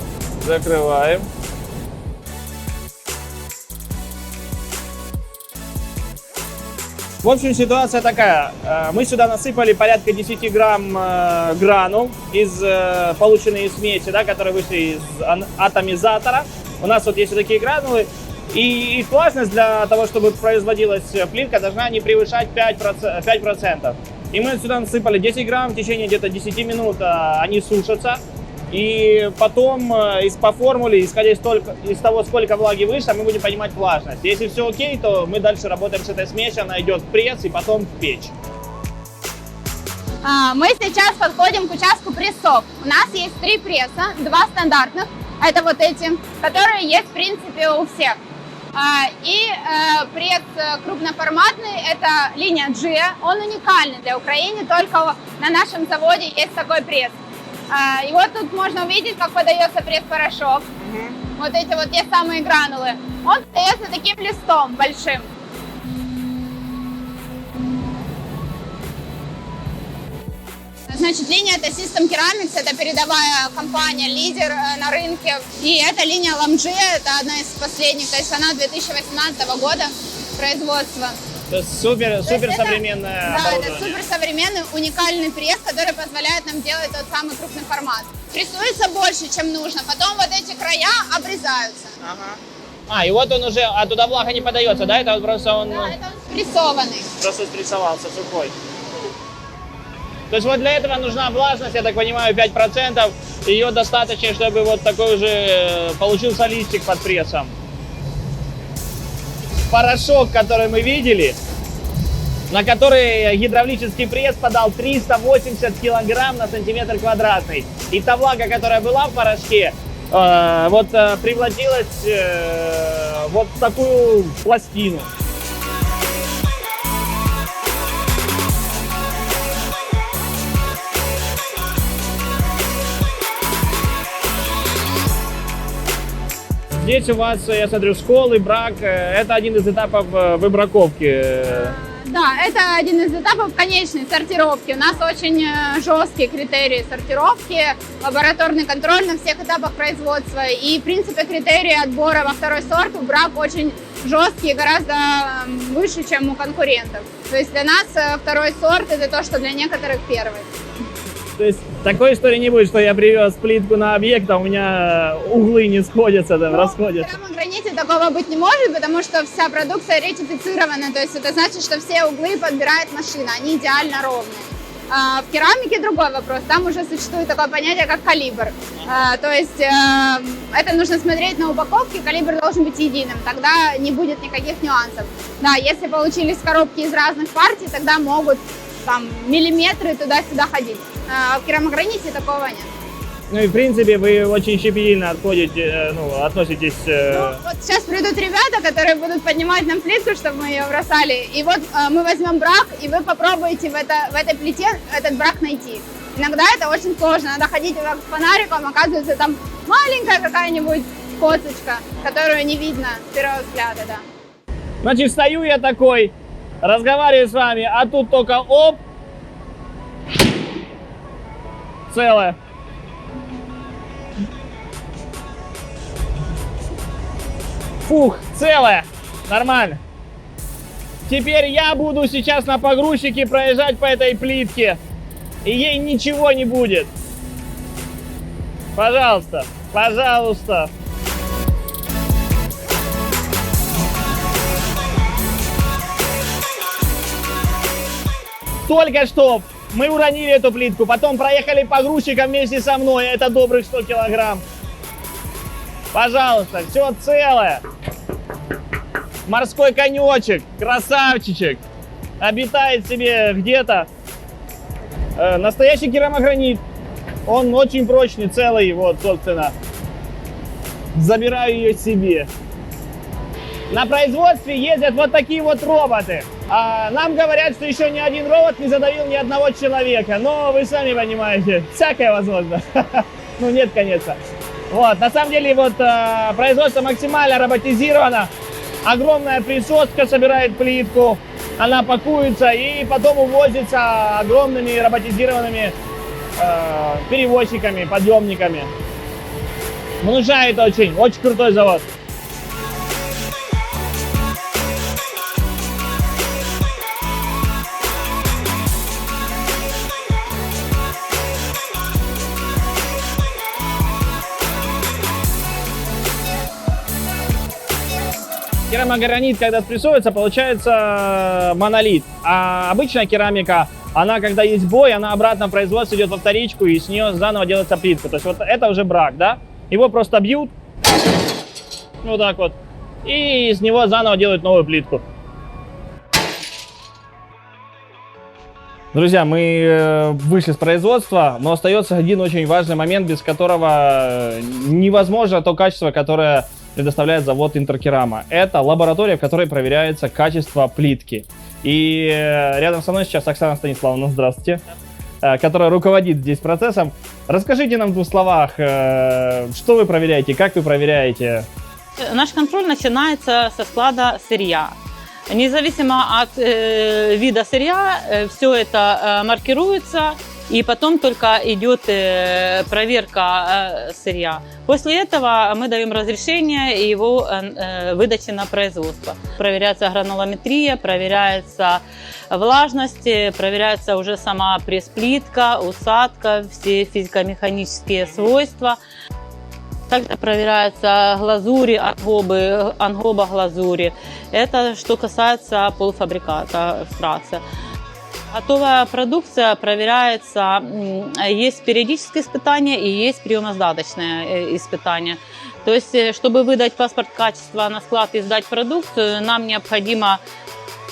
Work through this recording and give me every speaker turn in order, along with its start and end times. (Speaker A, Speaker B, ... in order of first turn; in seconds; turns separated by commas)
Speaker A: 0.4-1.3, Speaker A: 7.2-38.3, Speaker B: 40.2-48.2, Speaker B: 48.7-57.2, Speaker B: 57.7-60.7, Speaker A: 60.8-61.2, Speaker B: 61.4-65.3, Speaker B: 70.9-81.3, Speaker A: 81.5-84.0, Speaker B: 82.2-92.0, Speaker A: 92.0-96.0, Speaker B: 95.7-97.1, Speaker A: 97.2-98.5, Speaker A: 100.3-107.5, Speaker A: 109.7-111.4, Speaker A: 112.5-125.1, Speaker A: 136.7-141.8, Speaker B: 141.6-160.5, Speaker A: 161.4-167.1, Speaker B: 166.5-192.7, Speaker A: 193.3-197.4, Speaker B: 197.1-214.0, Speaker A: 214.8-218.8, Speaker A: 221.9-222.4, Speaker A: 227.9-229.8, Speaker A: 231.1-234.8, Speaker A: 235.4-236.9, Speaker A: 238.8-240.7, Speaker A: 248.7-254.4, Speaker A: 255.9-257.6, Speaker A: 259.3-261.6, Speaker A: 262.2-263.9, Speaker A: 265.2-266.6, Speaker A: 267.3-269.5, Speaker A: 270.9-272.3, Speaker A: 273.7-284.2, Speaker A: 284.7-288.3, Speaker A: 288.8-295.8, Speaker A: 296.4-298.7, Speaker A: 300.0-301.9, Speaker A: 318.7-330.5, Speaker A: 332.0-335.0, Speaker A: 338.9-354.6, Speaker A: 355.2-361.5, Speaker C: 362.0-364.8, Speaker C: 365.3-388.8, Speaker C: 389.9-397.4, Speaker C: 398.3-410.2